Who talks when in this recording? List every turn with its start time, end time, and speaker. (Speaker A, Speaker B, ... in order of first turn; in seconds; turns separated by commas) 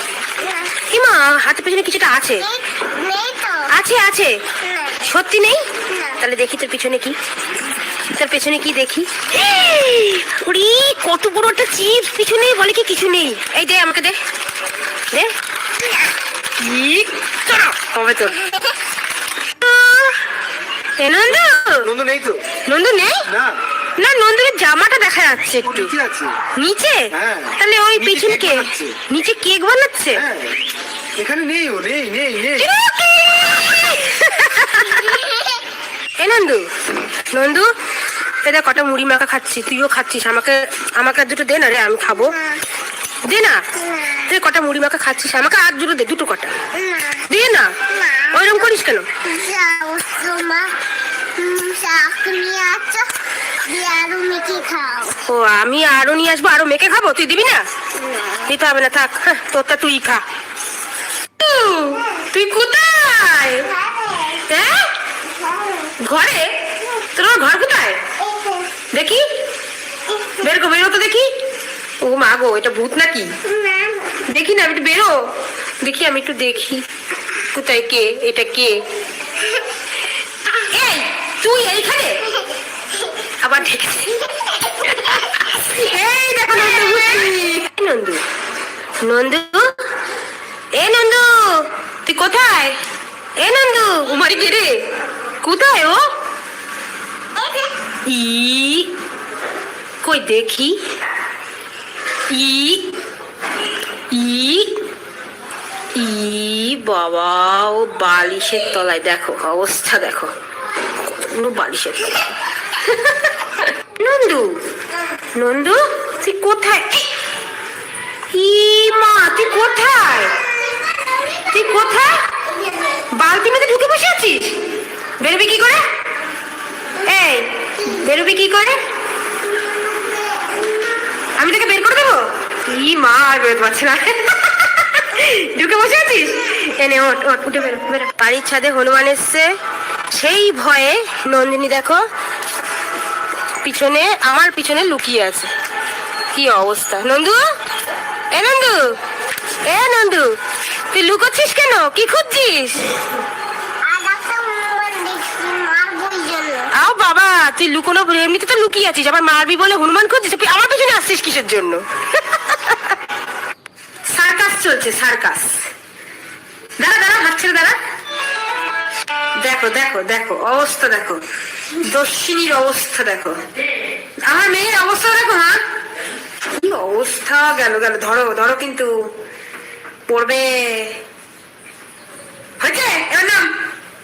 Speaker A: 0.4-0.7, Speaker B: 0.9-2.5, Speaker A: 2.4-3.7, Speaker B: 3.7-4.3, Speaker A: 4.6-5.0, Speaker B: 5.0-5.7, Speaker A: 5.9-6.2, Speaker B: 6.2-7.1, Speaker B: 8.1-14.2, Speaker B: 16.6-18.4, Speaker A: 18.4-18.7, Speaker B: 19.6-20.2, Speaker B: 21.0-21.9, Speaker C: 21.8-22.4, Speaker B: 22.6-23.2, Speaker C: 23.3-23.5, Speaker B: 24.0-25.9, Speaker C: 25.6-26.4, Speaker B: 26.5-30.2, Speaker C: 27.1-29.0, Speaker C: 30.2-30.5, Speaker C: 31.2-32.7, Speaker B: 32.6-35.2, Speaker A: 34.6-35.6, Speaker B: 36.2-36.6, Speaker B: 37.3-37.7, Speaker B: 38.4-42.3, Speaker A: 42.1-42.6, Speaker B: 43.2-43.6, Speaker A: 43.7-44.3, Speaker B: 44.3-46.5, Speaker A: 46.7-47.3, Speaker B: 47.3-47.7, Speaker A: 47.9-48.7, Speaker B: 48.3-49.0, Speaker A: 49.2-50.7, Speaker A: 51.4-53.1, Speaker A: 53.6-55.2, Speaker B: 55.2-57.6, Speaker A: 58.0-58.5, Speaker B: 58.5-60.2, Speaker B: 61.4-63.7, Speaker A: 63.6-64.5, Speaker B: 64.5-64.9, Speaker A: 65.4-65.9, Speaker B: 66.0-66.5, Speaker B: 67.1-68.0, Speaker A: 68.2-68.7, Speaker B: 68.9-69.2, Speaker A: 70.1-70.4, Speaker B: 70.4-71.3, Speaker B: 72.0-73.3, Speaker A: 73.4-74.2, Speaker B: 74.3-75.2, Speaker B: 75.8-76.8, Speaker B: 77.5-78.8, Speaker B: 80.5-82.3, Speaker B: 83.4-84.3, Speaker A: 84.4-85.2, Speaker B: 84.9-88.2, Speaker A: 86.5-87.2, Speaker B: 89.0-89.8, Speaker B: 90.7-92.8, Speaker B: 93.4-94.8, Speaker B: 95.4-96.0, Speaker A: 97.4-97.7, Speaker B: 98.0-98.9, Speaker B: 100.0-100.8, Speaker B: 102.3-102.9, Speaker B: 104.1-104.7, Speaker B: 105.9-110.3, Speaker B: 111.0-114.6, Speaker B: 115.3-117.1, Speaker B: 118.3-120.4, Speaker A: 119.6-121.9, Speaker B: 121.5-122.2, Speaker A: 122.5-123.0, Speaker B: 123.1-124.6, Speaker B: 125.2-125.8, Speaker B: 127.0-128.8, Speaker A: 127.8-128.1, Speaker A: 129.5-130.7, Speaker B: 131.4-139.5, Speaker B: 140.1-142.0, Speaker B: 143.6-145.5, Speaker B: 146.3-147.4, Speaker B: 148.3-148.9, Speaker B: 149.6-150.3, Speaker B: 150.9-152.9, Speaker A: 153.8-156.7, Speaker B: 156.7-162.9, Speaker B: 164.1-165.7, Speaker B: 166.8-167.8, Speaker B: 169.4-171.2, Speaker B: 171.8-173.4, Speaker B: 174.2-175.6, Speaker B: 176.6-179.1, Speaker B: 180.1-181.0, Speaker B: 182.6-183.5